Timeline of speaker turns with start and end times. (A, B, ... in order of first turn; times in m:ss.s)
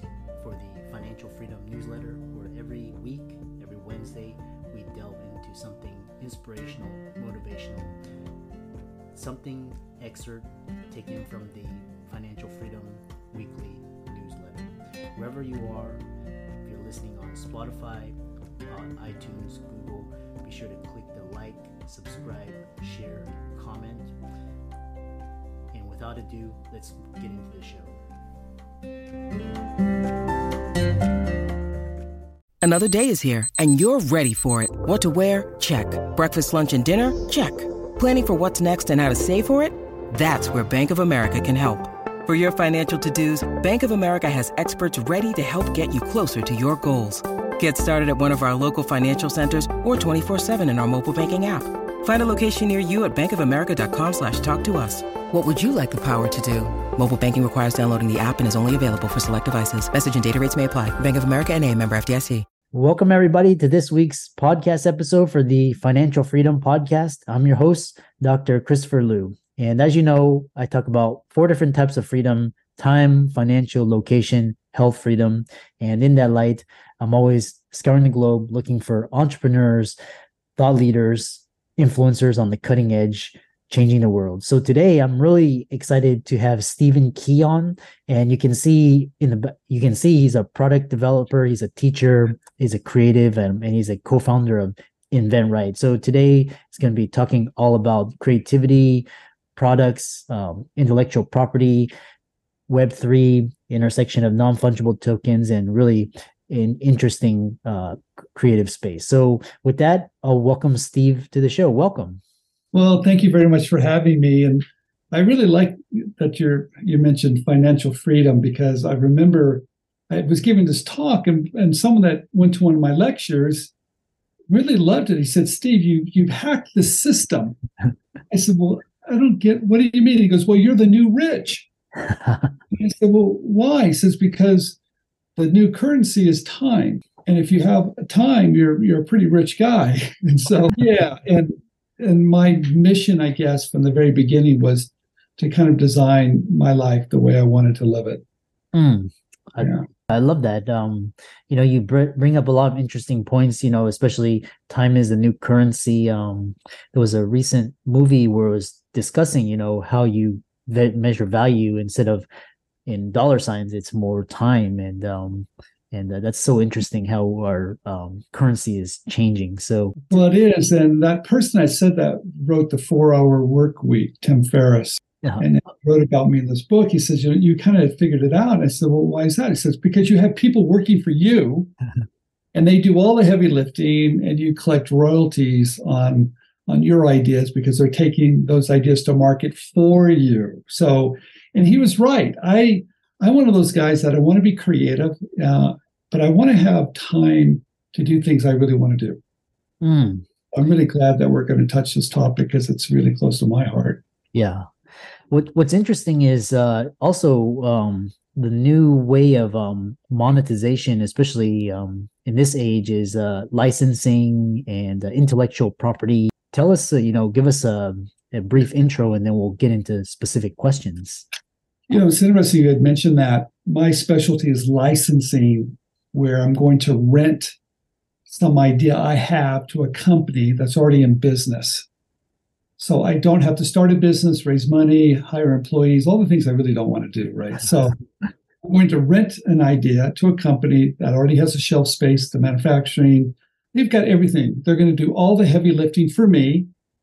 0:00.4-0:08.0 A
0:09.1-0:16.0 A
0:16.6-0:18.2 A
0:18.7-0:24.1 A
0:25.7-0:28.0 A
0:32.6-1:02.5 B
1:02.7-1:20.0 A
1:20.6-1:41.9 A
1:42.7-1:52.2 A
1:52.7-2:03.7 C
2:04.5-2:07.6 C
2:08.3-2:11.7 C
2:12.7-2:14.8 C
2:15.4-2:28.2 C
2:28.7-2:42.3 A
2:42.9-2:50.0 A
2:50.1-3:01.7 C
3:02.5-3:19.2 C
3:19.8-3:20.2 A
3:20.5-3:24.0 C
3:24.3-3:24.7 A
3:25.3-3:41.3 A
3:41.9-3:47.6 C
3:48.3-3:51.9 C
3:52.8-3:58.0 C
3:58.6-4:06.7 C